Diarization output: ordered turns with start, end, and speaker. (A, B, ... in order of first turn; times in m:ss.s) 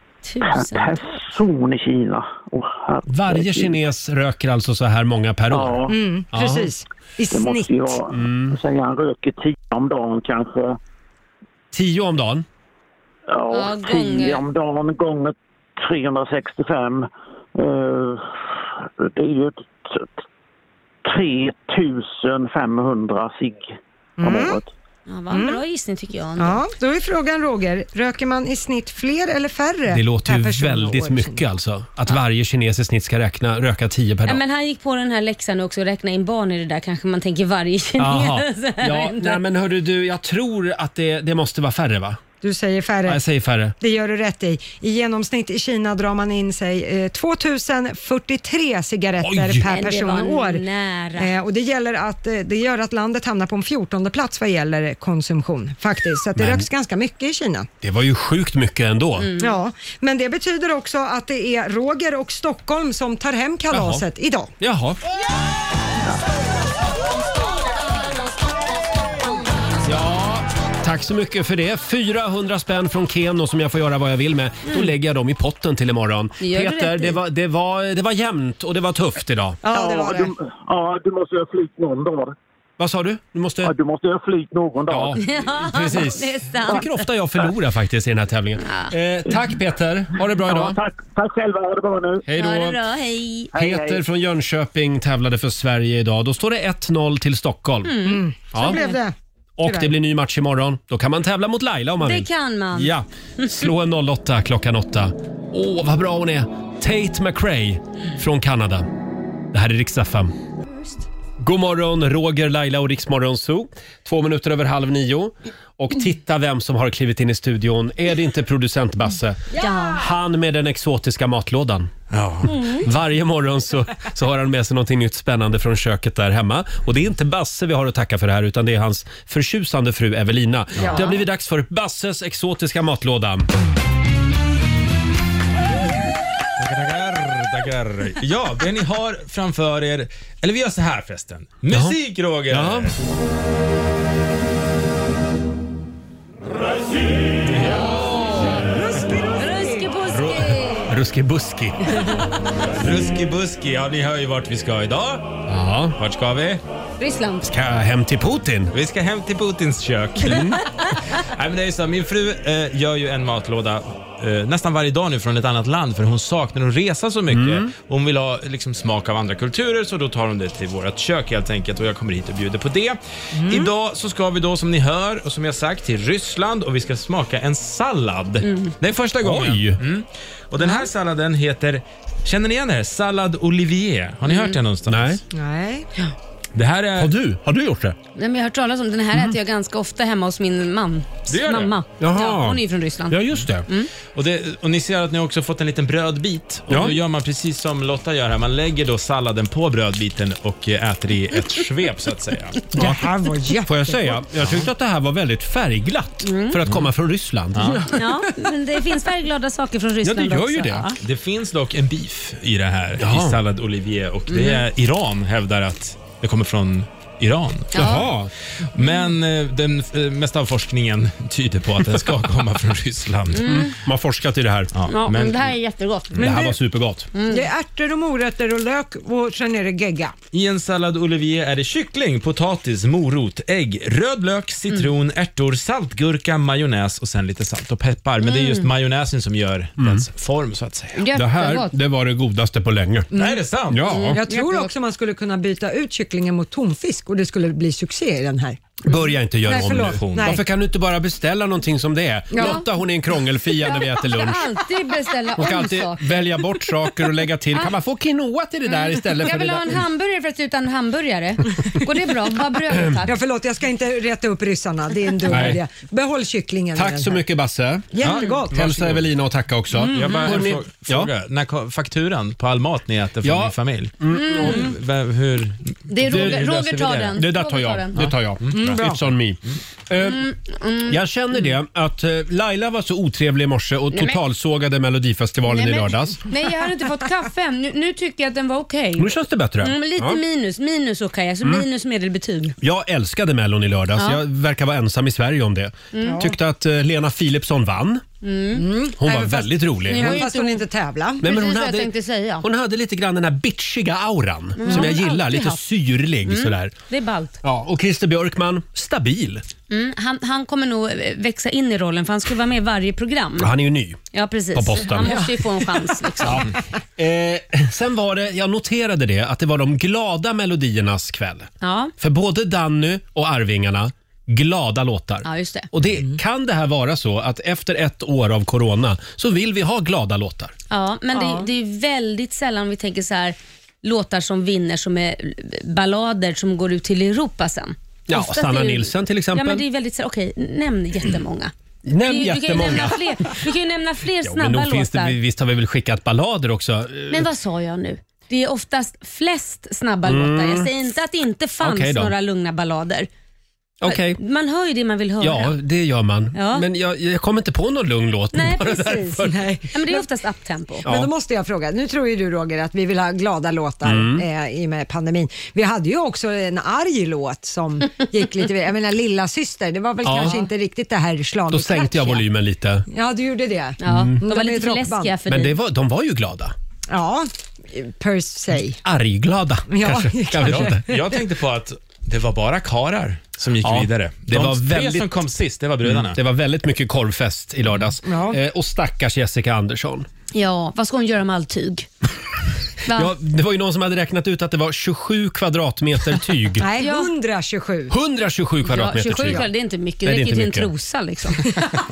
0:00.2-0:01.0 A
0:00.4-0:03.8 B
0:03.1-0:06.7 C
0:05.5-0:05.9 B
0:05.9-0:08.0 D
0:07.3-0:10.8 B
0:08.1-0:08.6 C
0:11.7-0:12.4 C
0:13.3-0:20.2 B
0:13.5-0:14.4 A
0:21.0-0:24.7 B
0:24.2-0:24.6 D
0:25.1-0:26.6 A
0:25.3-0:25.6 D
0:26.4-0:31.4 D
0:29.9-0:34.4 C
0:34.2-0:39.4 A
0:38.0-0:42.2 C
0:42.4-0:43.2 D
0:43.0-0:43.7 C
0:43.8-0:50.6 D
0:49.2-0:49.7 C
0:49.6-0:51.3 A
0:51.2-0:57.7 D
0:56.4-0:56.7 C
0:57.8-0:59.3 C
0:59.2-0:59.5 A
0:59.4-1:04.5 D
1:03.7-1:04.0 C
1:04.6-1:05.0 C
1:09.8-1:19.6 C
1:16.4-1:17.2 A
1:19.6-1:20.3 D
1:19.7-1:22.3 B
1:22.8-1:23.7 C
1:23.6-1:25.4 B
1:24.9-1:30.8 C
1:25.2-1:27.0 A
1:28.6-1:28.9 A
1:30.2-1:32.2 B
1:32.2-1:32.8 C
1:32.4-1:33.5 A
1:33.5-1:34.0 B
1:33.5-1:38.8 C
1:37.8-1:39.0 A
1:38.0-1:39.9 D
1:39.6-1:48.9 C
1:42.0-1:43.6 A
1:49.5-1:50.3 C
1:51.4-2:01.9 C
1:59.6-2:00.0 D
1:59.6-2:00.0 A
2:02.1-2:02.5 E
2:02.4-2:02.9 A
2:02.5-2:13.5 C
2:16.6-2:23.0 E
2:21.7-2:22.9 C
2:27.4-2:28.5 E
2:28.6-2:29.9 D
2:29.3-2:30.9 A
2:30.1-2:32.2 C
2:32.8-2:35.4 E
2:35.5-2:36.0 C
2:36.0-2:36.6 E
2:37.0-2:37.5 A
2:37.4-2:38.7 C
2:38.7-3:05.2 E
2:40.2-2:40.6 C
2:47.3-2:47.7 C
2:53.3-2:53.7 D
2:58.4-2:58.7 A
2:59.2-2:59.8 C
3:04.3-3:04.6 A
3:04.9-3:05.2 C
3:05.3-3:05.9 D
3:06.5-3:07.1 E
3:07.0-3:08.0 C
3:08.2-3:13.9 A
3:09.1-3:09.4 C
3:11.3-3:11.7 E
3:12.0-3:13.7 C
3:14.1-3:22.6 E
3:16.7-3:17.0 C
3:22.7-3:24.2 D
3:22.7-3:28.3 C
3:26.2-3:26.6 A
3:27.5-3:27.8 E
3:27.9-3:31.0 A
3:30.0-3:30.9 C
3:31.0-3:38.0 E
3:33.0-3:33.4 C
3:34.3-3:34.6 A
3:37.7-3:38.1 A
3:37.7-3:38.3 C
3:38.7-3:43.6 E
3:43.3-3:43.7 A
3:43.4-3:44.7 C
3:44.7-3:45.5 E
3:44.9-3:46.2 A
3:46.2-3:46.5 D
3:46.2-3:47.1 C
3:47.1-3:47.4 A
3:47.3-3:50.1 D
3:50.3-4:01.0 E
3:58.2-3:58.6 A
3:59.8-4:00.0 C
4:01.0-4:01.7 A
4:01.1-4:03.1 C
4:03.1-4:03.4 D
4:03.1-4:03.9 E
4:03.7-4:04.2 C
4:03.9-4:04.7 A
4:04.1-4:08.9 D
4:08.8-4:14.5 C
4:09.4-4:10.4 D
4:09.6-4:10.4 E
4:12.3-4:12.6 D
4:12.4-4:12.6 A
4:13.6-4:16.6 A
4:15.4-4:19.8 C
4:18.7-4:23.1 A
4:23.0-4:27.2 D
4:25.2-4:25.6 C
4:26.7-4:28.0 C
4:27.9-4:28.8 D
4:28.0-4:29.0 E
4:28.5-4:31.1 C
4:29.8-4:30.3 A
4:29.9-4:37.2 E
4:33.2-4:34.7 C
4:34.1-4:34.7 A
4:35.9-4:38.1 A
4:36.0-4:36.5 C
4:37.1-4:40.3 C
4:38.4-4:38.8 E
4:38.5-4:39.0 D
4:40.0-4:41.0 A
4:40.8-4:46.3 C
4:43.9-4:44.2 A
4:45.5-4:52.6 A
4:49.0-4:50.2 C
4:52.6-4:58.0 C
4:55.9-4:56.2 A
4:56.0-4:56.3 D
4:58.2-4:58.7 A
4:58.5-5:01.2 D
4:59.0-5:00.3 C
4:59.9-5:00.6 A
5:01.2-5:06.7 C
5:01.2-5:02.4 A
5:04.6-5:05.6 A
5:04.7-5:04.9 D
5:06.2-5:07.4 A
5:07.4-5:09.4 C
5:09.7-5:13.5 A
5:13.4-5:14.0 C
5:14.1-5:16.5 A
5:14.5-5:15.4 C
5:16.2-5:30.5 C
5:21.6-5:21.9 A
5:25.2-5:25.7 A
5:30.7-5:45.2 A
5:31.1-5:31.5 D
5:38.1-5:39.6 C
5:41.8-5:43.4 C
5:44.2-5:47.3 C
5:47.1-5:53.1 A
5:50.0-5:50.7 C
5:51.6-5:52.1 C
5:53.8-5:54.2 C
5:53.8-5:55.5 A
5:55.2-5:59.5 C
5:56.3-5:56.6 A
5:58.3-6:00.9 A
5:59.2-6:00.0 D
6:00.8-6:01.1 C
6:00.8-6:12.2 D
6:03.8-6:04.2 C
6:10.0-6:10.4 C
6:11.5-6:12.9 C
6:12.9-6:15.2 D
6:13.8-6:15.5 A
6:13.9-6:14.2 C
6:15.2-6:16.5 C
6:16.9-6:18.8 D
6:18.8-6:20.9 C
6:19.7-6:21.0 D
6:20.4-6:26.2 E
6:23.6-6:25.1 C
6:25.8-6:30.1 C
6:28.0-6:28.4 D
6:30.3-6:31.9 A
6:32.8-6:33.1 A
6:32.9-6:36.6 C
6:36.6-6:37.9 D
6:36.8-6:37.1 A
6:37.9-6:39.5 C
6:38.6-6:41.5 A
6:40.0-6:40.7 C